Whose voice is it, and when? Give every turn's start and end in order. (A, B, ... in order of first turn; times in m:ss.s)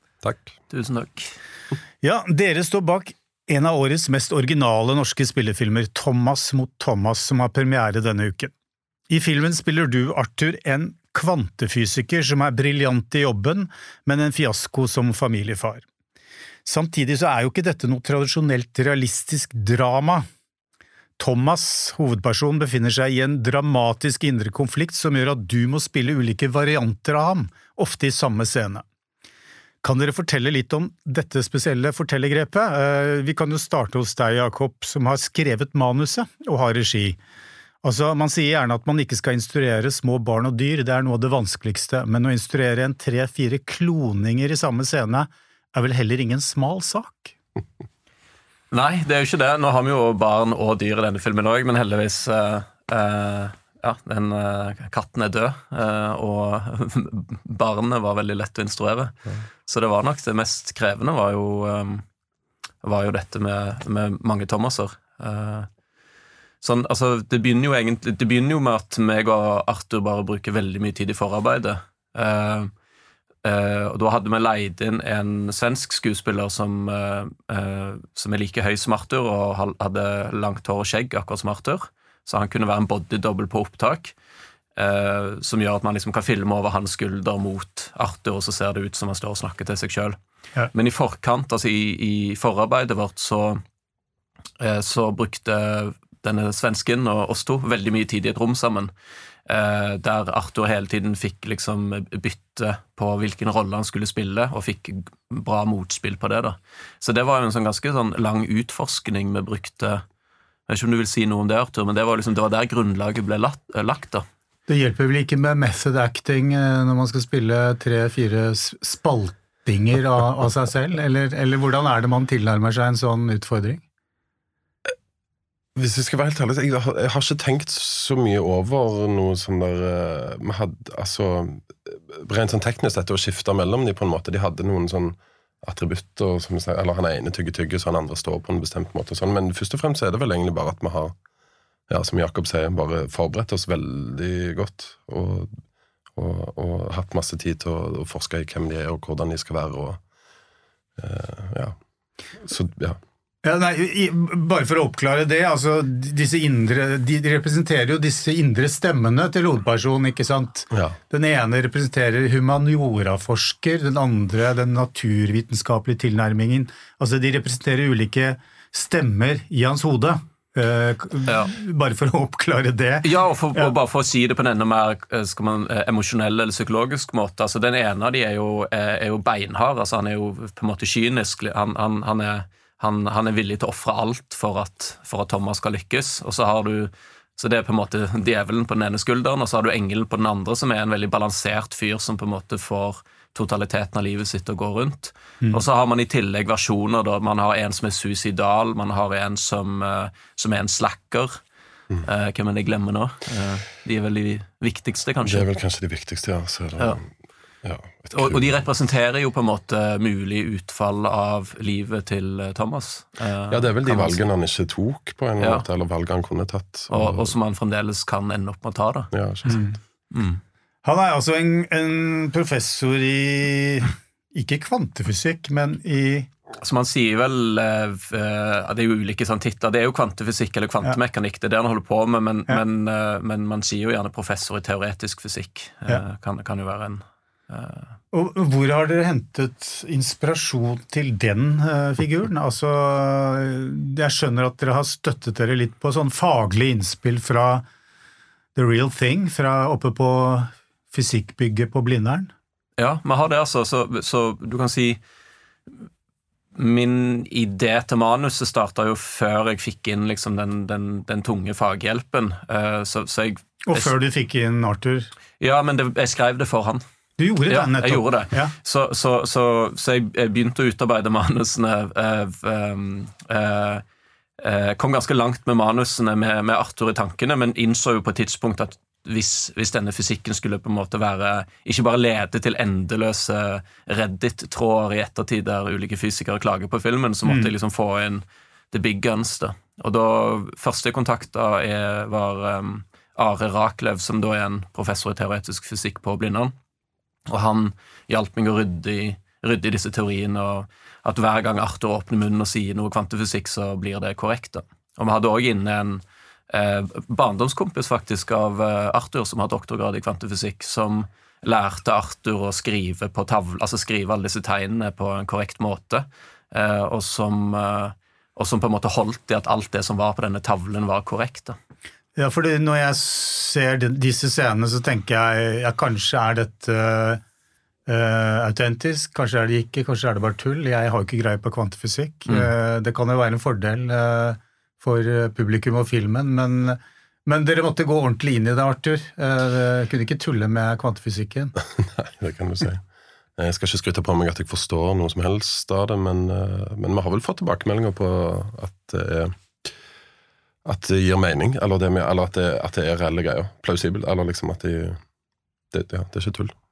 0:00.2-0:00.5 A
0:00.7-0:01.3 B
0:02.0-0:08.5 C
0:09.1-0:15.8 C
0:16.6-0:20.2 C
0:21.2-0:28.8 C
0:29.8-0:37.2 C
0:37.8-0:47.4 C
0:48.7-1:02.0 B
1:02.8-1:05.7 B
1:06.6-1:12.7 B
1:13.4-1:24.1 B
1:24.8-1:30.2 B
1:30.7-1:33.6 B
1:34.6-1:38.9 B
1:39.4-1:50.0 B
1:50.7-1:54.2 B
1:54.7-2:03.8 C
2:05.8-2:21.1 A
2:21.9-2:25.5 A
2:26.1-2:30.0 A
2:31.0-2:31.8 A
2:32.4-2:33.0 A
2:33.4-2:53.7 C
2:40.7-2:41.0 A
2:53.0-3:21.4 B
3:22.0-3:25.5 B
3:25.2-3:27.0 A
3:27.6-3:28.6 A
3:28.1-3:34.2 B
3:33.5-3:37.3 A
3:35.4-3:35.6 B
3:36.9-3:39.1 B
3:39.1-3:39.6 A
3:39.4-3:39.8 C
3:40.1-3:40.4 B
3:40.8-3:46.3 C
3:46.6-3:57.9 B
3:58.1-4:07.6 C
4:08.5-4:12.3 C
4:12.8-4:15.0 B
4:16.5-4:23.9 B
4:23.6-4:25.1 C
4:25.4-4:26.8 B
4:27.2-4:28.5 C
4:27.5-4:33.8 B
4:34.4-4:56.5 B
4:47.2-4:47.5 C
4:57.3-5:21.6 B
5:22.2-5:27.2 C
5:27.9-5:41.5 C
5:41.7-5:42.8 A
5:43.4-5:49.7 A
5:50.6-5:55.0 A
5:55.7-5:56.5 A